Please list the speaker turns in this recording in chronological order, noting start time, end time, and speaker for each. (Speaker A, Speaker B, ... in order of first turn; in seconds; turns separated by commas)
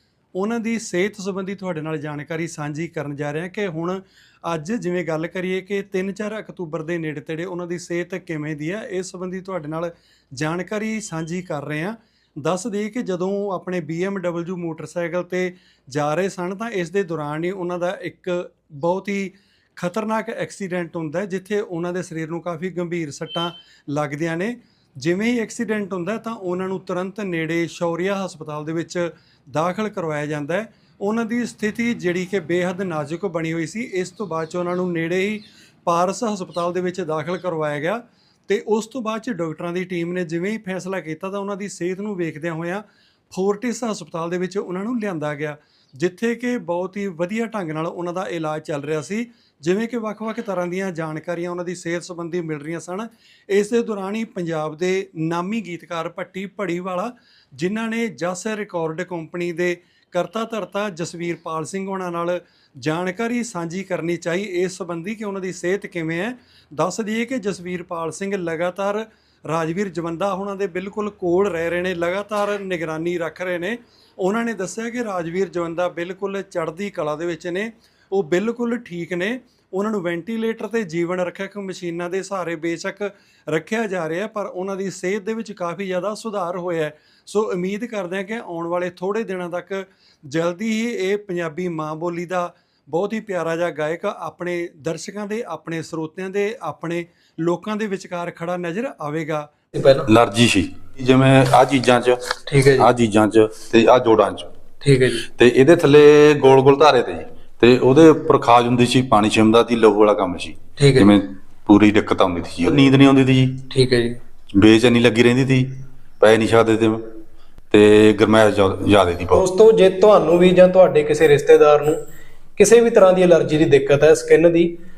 Speaker A: 0.3-99.5, Speaker B: 99.7-100.1, Speaker C: 100.0-104.5, Speaker B: 102.5-102.9, Speaker B: 104.8-105.2, Speaker C: 105.3-113.6, Speaker B: 110.8-111.2, Speaker B: 113.7-114.2, Speaker C: 114.5-117.0, Speaker C: 117.7-119.4, Speaker B: 119.3-122.0, Speaker B: 122.6-124.7